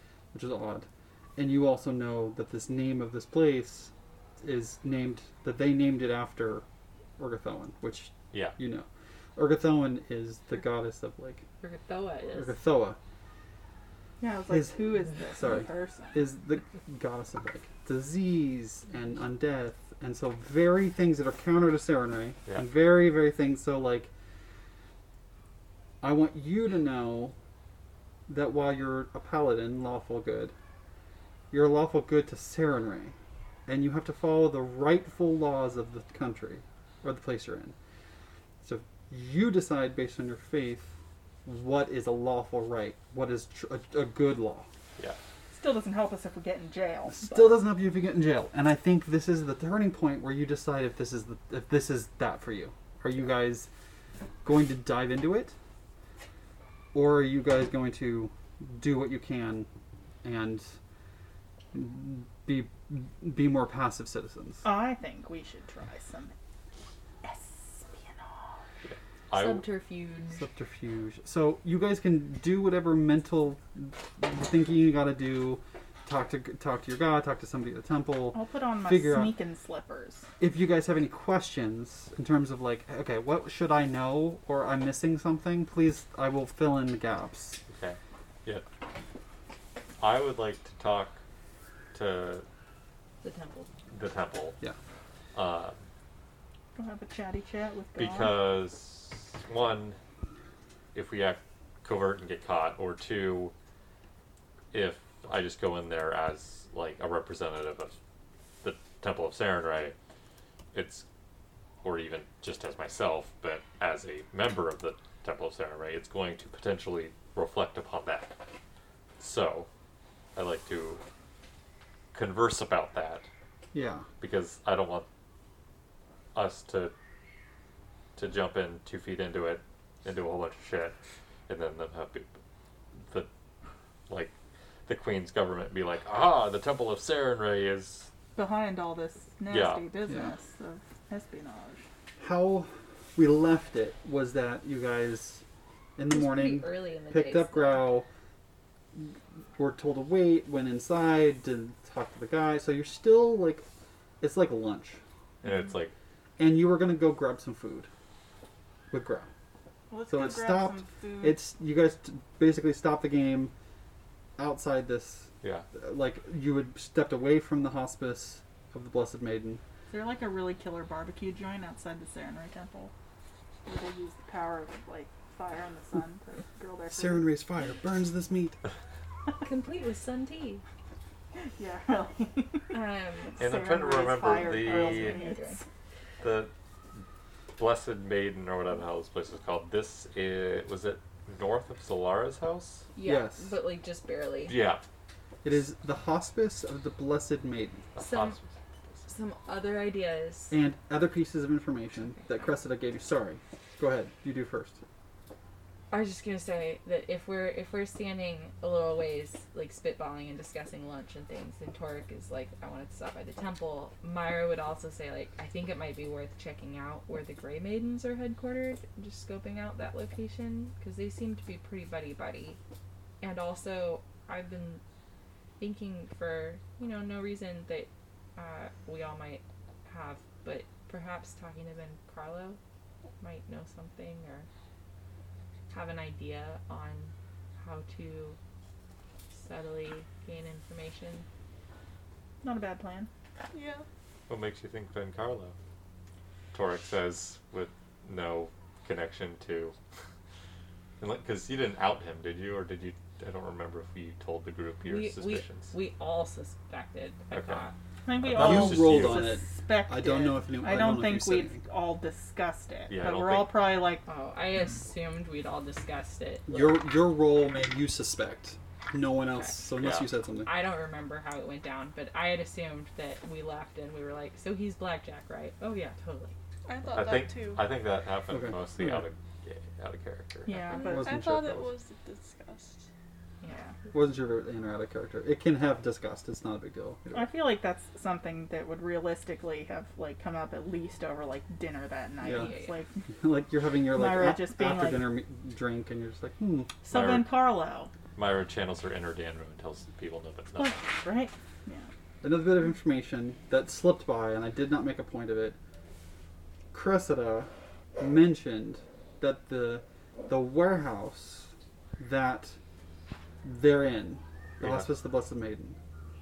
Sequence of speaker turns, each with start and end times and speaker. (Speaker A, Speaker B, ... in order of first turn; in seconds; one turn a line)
Speaker A: 0.3-6.7
Speaker A: 7.2-11.4
Speaker B: 8.3-8.6
Speaker C: 11.6-12.6
Speaker A: 12.3-13.0
Speaker D: 14.2-16.2
Speaker A: 14.5-24.1
Speaker A: 26.0-27.4
Speaker A: 28.3-30.5
Speaker A: 31.5-33.1
Speaker A: 33.7-37.8
Speaker A: 38.6-44.7
Speaker D: 45.5-47.6
Speaker A: 47.1-53.7
Speaker A: 54.4-55.5
Speaker A: 56.9-59.7
Speaker A: 60.2-60.7
Speaker A: 61.7-64.7
Speaker D: 64.6-66.3
Speaker D: 67.2-68.5
Speaker B: 68.8-69.7
Speaker C: 69.3-70.4
Speaker A: 70.4-79.3
Speaker D: 78.3-80.3
Speaker A: 80.4-87.6
Speaker B: 87.7-88.7
Speaker B: 90.0-91.2
Speaker B: 91.9-92.5
Speaker C: 93.2-93.7
Speaker B: 93.9-94.6
Speaker B: 95.3-95.8
Speaker D: 96.8-98.4
Speaker B: 98.0-100.0
Speaker B: 100.9-103.5
Speaker B: 104.7-107.9
Speaker B: 108.6-110.0
Speaker B: 110.7-111.1
Speaker B: 111.8-118.3
Speaker B: 119.2-119.7
Speaker B: 120.3-121.0
Speaker B: 122.1-123.3
Speaker A: 123.7-124.1
Speaker B: 124.2-125.1
Speaker B: 126.3-126.9
Speaker B: 128.2-131.0
Speaker B: 131.5-132.3
Speaker B: 134.9-138.1
Speaker D: 138.3-141.8
Speaker B: 139.5-139.8
Speaker A: 142.2-145.4
Speaker A: 146.0-148.1
Speaker C: 146.1-147.9
Speaker A: 148.9-153.7
Speaker A: 154.2-155.0
Speaker B: 155.4-155.9
Speaker A: 156.4-157.9
Speaker A: 158.9-159.3
Speaker D: 159.9-161.4
Speaker A: 160.1-163.5
Speaker A: 164.4-169.6
Speaker D: 169.9-172.9
Speaker D: 173.7-177.3
Speaker A: 176.9-178.6
Speaker C: 179.4-180.6
Speaker D: 181.6-182.7
Speaker C: 182.7-183.5
Speaker D: 183.4-185.6
Speaker B: 183.4-185.2
Speaker C: 184.3-185.6
Speaker B: 186.2-186.5
Speaker B: 187.6-192.9
Speaker C: 192.9-194.6
Speaker A: 193.0-193.5
Speaker B: 194.5-194.8
Speaker A: 195.4-197.8
Speaker B: 197.9-198.5
Speaker C: 198.0-198.4
Speaker C: 199.1-200.6
Speaker A: 200.5-204.8
Speaker C: 202.2-202.5
Speaker C: 205.9-222.6
Speaker C: 223.2-224.8
Speaker C: 225.6-232.6
Speaker C: 233.2-234.5
Speaker C: 235.7-238.4
Speaker C: 239.3-241.3
Speaker D: 242.4-243.1
Speaker E: 243.5-243.9
Speaker B: 244.3-245.6
Speaker B: 246.5-249.8
Speaker B: 251.0-255.7
Speaker C: 254.8-257.8
Speaker B: 257.3-257.6
Speaker D: 258.1-264.1
Speaker B: 258.2-259.3
Speaker A: 258.3-261.6
Speaker B: 262.9-263.7
Speaker C: 264.1-266.8
Speaker A: 266.5-270.5
Speaker B: 269.8-270.1
Speaker C: 270.4-276.4
Speaker E: 276.7-277.7
Speaker B: 276.9-280.6
Speaker A: 278.3-279.0
Speaker D: 280.5-281.2
Speaker E: 280.7-282.9
Speaker A: 280.8-281.7
Speaker C: 283.4-283.8
Speaker A: 283.9-287.4
Speaker D: 287.1-293.0
Speaker A: 292.2-292.5
Speaker C: 292.3-292.8
Speaker A: 293.1-296.8
Speaker D: 293.9-295.2
Speaker D: 296.8-297.9
Speaker B: 296.9-297.3
Speaker B: 298.1-300.9
Speaker D: 300.5-301.9
Speaker A: 302.2-305.6
Speaker A: 306.7-312.6
Speaker A: 313.4-315.8
Speaker B: 314.6-314.9